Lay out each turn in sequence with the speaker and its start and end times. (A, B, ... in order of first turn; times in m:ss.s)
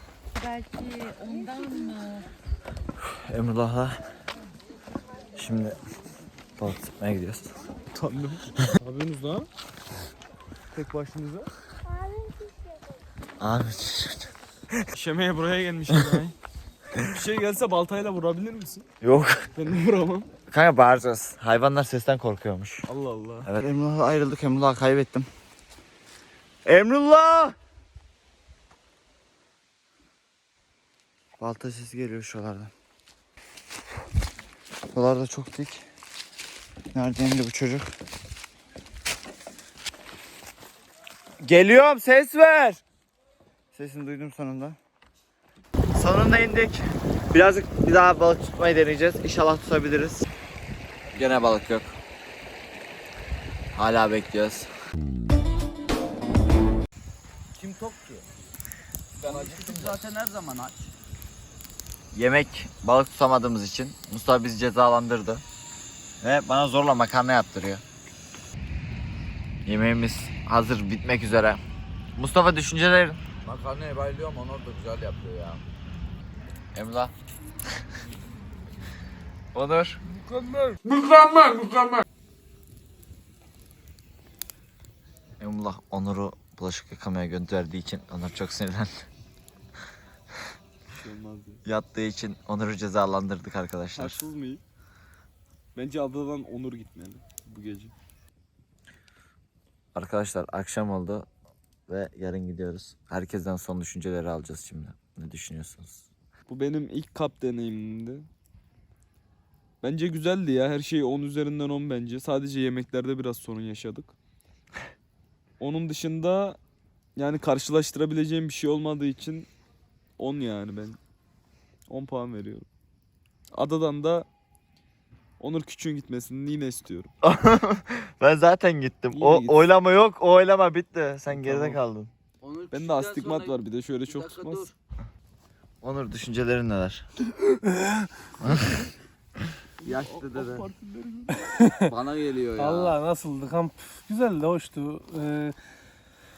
0:00.8-0:02.2 A
0:03.0-0:04.0 B
0:05.4-0:05.8 B
0:06.6-0:07.5 B
0:07.9-0:09.5 A
0:10.7-0:11.5 A
0:13.4-0:14.3 B
0:14.9-0:16.4 A
0:17.0-0:18.9 A
0:19.0-0:19.5 B
0:19.6-0:20.3 A
0:20.5-0:22.9 B
0:22.9-0:23.5 A
0:23.4-0:25.3 B
0:26.6-0:27.6 B
0:31.4-0:32.7 B
0:34.9-0:35.9 B
0:36.9-0:37.9 B
0:41.4-0:42.8 B
0:43.7-0:44.8 B
0:46.0-0:50.3 B
0:51.1-0:52.0 B
0:53.7-0:54.7 B
0:57.6-0:58.2 C
0:59.2-1:00.0 B
0:59.2-1:00.9 C
1:02.1-1:05.4 B
1:06.2-1:07.8 B
1:09.7-1:11.6 B
1:12.2-1:13.2 B
1:13.4-1:15.6 C
1:16.7-1:17.1 B
1:19.5-1:20.0 B
1:20.1-1:20.9 D
1:25.4-1:29.1 B
1:30.9-1:31.6 A
1:31.6-1:34.2 B
1:33.9-1:34.6 A
1:35.8-1:37.9 A
1:40.0-1:41.3 B
1:41.9-1:46.1 B
1:46.5-1:48.3 A
1:49.8-1:54.1 A
1:55.6-1:56.6 A
1:57.2-1:59.5 A
2:00.2-2:01.0 A
2:01.9-2:02.7 A
2:03.5-2:04.3 A
2:05.4-2:07.1 A
2:07.2-2:12.1 B
2:09.1-2:09.6 A
2:11.3-2:11.8 A
2:12.4-2:14.7 C
2:12.7-2:14.7 A
2:15.8-2:17.0 B
2:17.7-2:18.1 D
2:18.4-2:18.8 B
2:19.8-2:21.5 A
2:19.8-2:20.7 C
2:21.6-2:21.8 D
2:21.7-2:23.0 C
2:22.6-2:25.6 D